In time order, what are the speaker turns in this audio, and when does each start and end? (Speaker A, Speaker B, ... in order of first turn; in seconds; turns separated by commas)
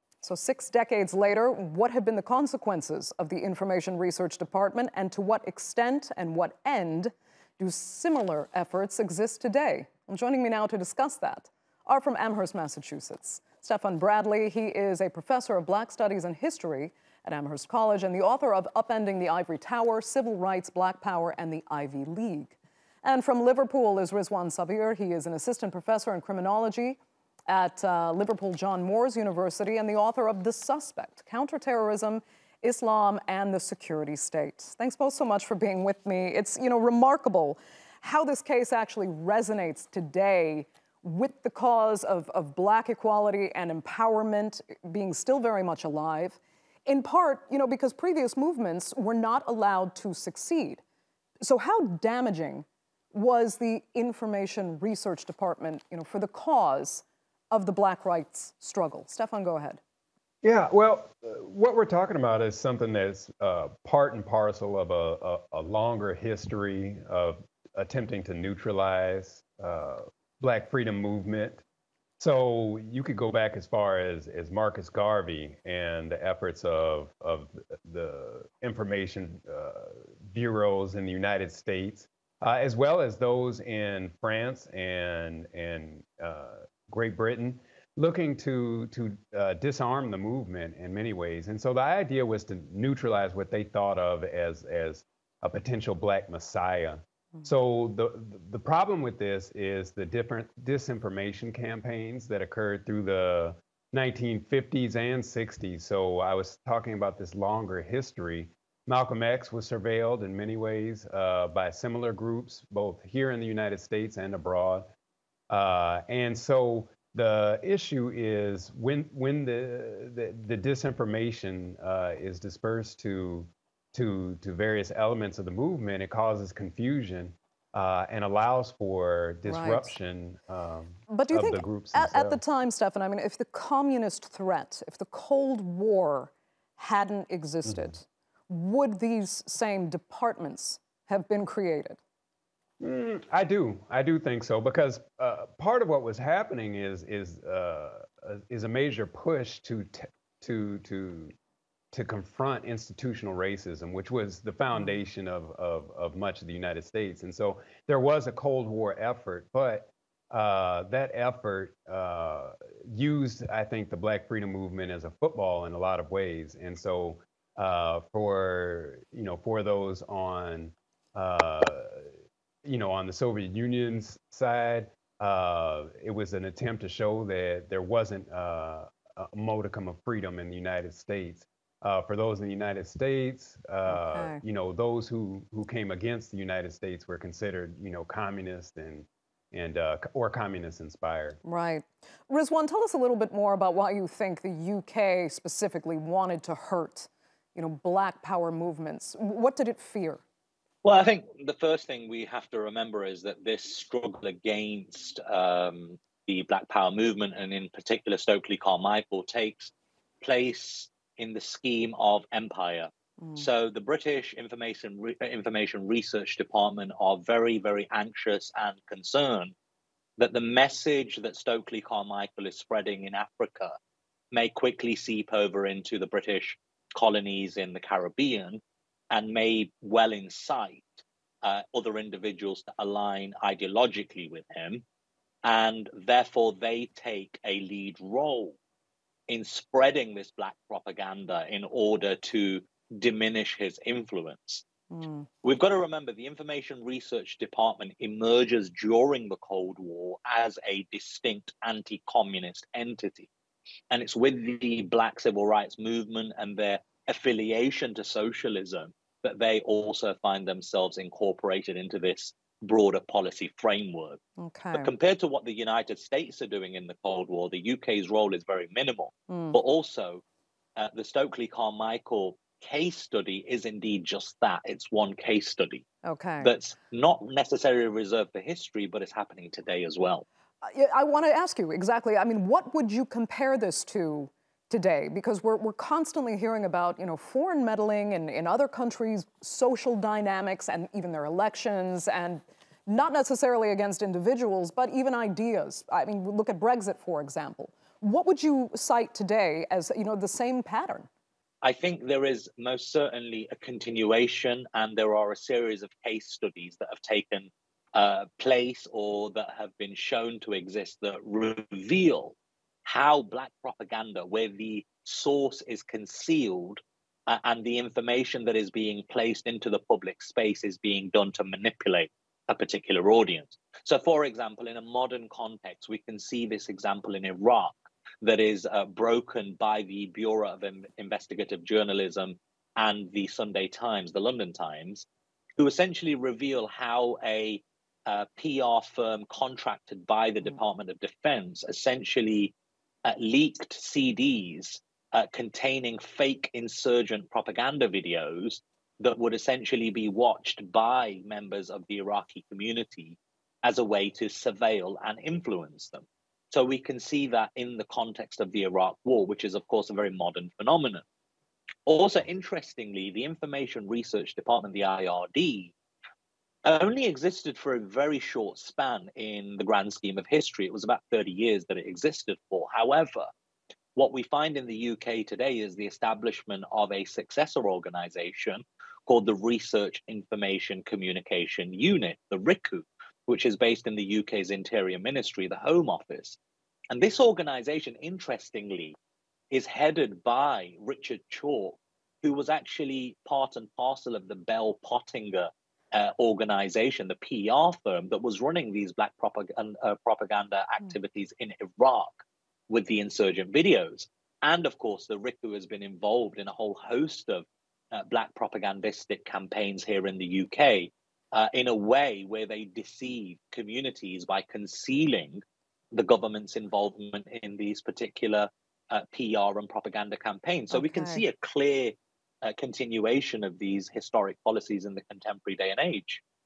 Speaker A: 0.2-50.8, Speaker A: 51.4-59.8, Speaker B: 60.4-71.6, Speaker B: 72.2-114.9, Speaker B: 115.5-132.4, Speaker A: 129.4-129.9, Speaker A: 131.1-142.0, Speaker B: 142.8-151.3, Speaker B: 151.9-172.1, Speaker B: 172.6-191.4, Speaker A: 183.9-184.4, Speaker A: 191.4-200.2, Speaker C: 200.8-219.5, Speaker C: 220.2-223.8, Speaker C: 224.3-228.6, Speaker C: 229.1-234.8, Speaker C: 235.4-238.6, Speaker C: 239.3-244.6, Speaker A: 244.9-245.3, Speaker C: 245.4-253.3, Speaker C: 253.9-264.2, Speaker A: 264.4-264.9, Speaker C: 264.7-270.2, Speaker A: 269.3-269.6, Speaker C: 270.8-275.9, Speaker A: 276.0-276.5, Speaker C: 276.4-280.2, Speaker A: 280.6-301.1, Speaker C: 301.6-335.0, Speaker C: 335.6-342.5, Speaker C: 343.0-361.0, Speaker C: 361.9-365.7, Speaker C: 366.6-373.3, Speaker C: 373.9-386.4, Speaker C: 386.9-388.9, Speaker C: 389.5-426.2, Speaker A: 420.7-421.2